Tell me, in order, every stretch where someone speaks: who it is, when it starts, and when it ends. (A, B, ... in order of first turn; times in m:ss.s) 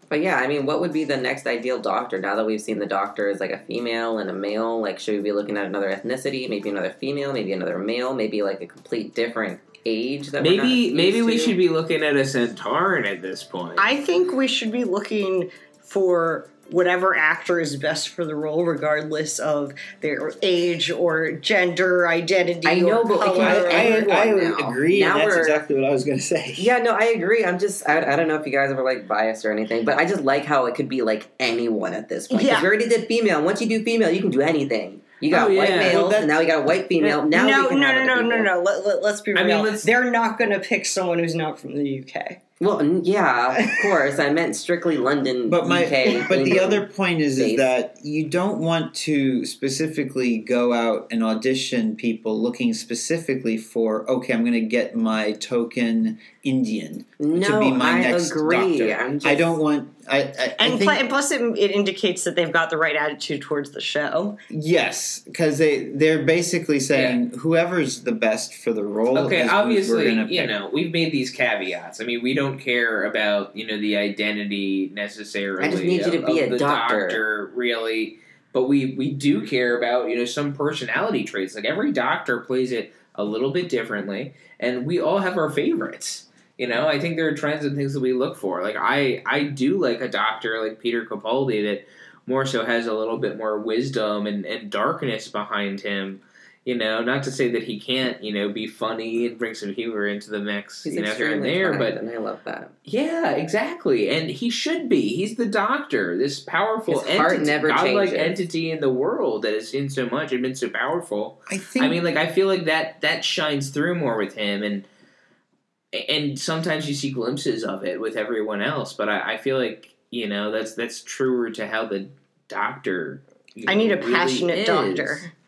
0:00.1-0:11.5 A
0:10.4-0:13.9 B
0:13.8-0:24.1 C
0:22.6-0:25.6 A
0:23.4-0:26.7 D
0:26.6-0:38.5 A
0:32.3-0:32.7 C
0:35.3-0:36.1 B
0:35.8-0:36.2 D
0:37.0-0:42.4 C
0:39.3-0:39.9 B
0:42.6-0:46.8 A
0:43.6-0:43.9 C
0:45.5-1:01.0 D
0:47.4-0:47.7 A
0:57.2-0:59.6 A
1:00.6-1:04.4 C
1:04.5-1:10.5 D
1:06.9-1:07.2 B
1:09.1-1:42.0 B
1:15.6-1:17.2 A
1:40.8-1:42.7 A
1:42.8-1:54.8 B
1:46.9-1:48.4 A
1:51.5-1:52.0 D
1:55.9-2:05.2 B
2:03.7-2:05.3 C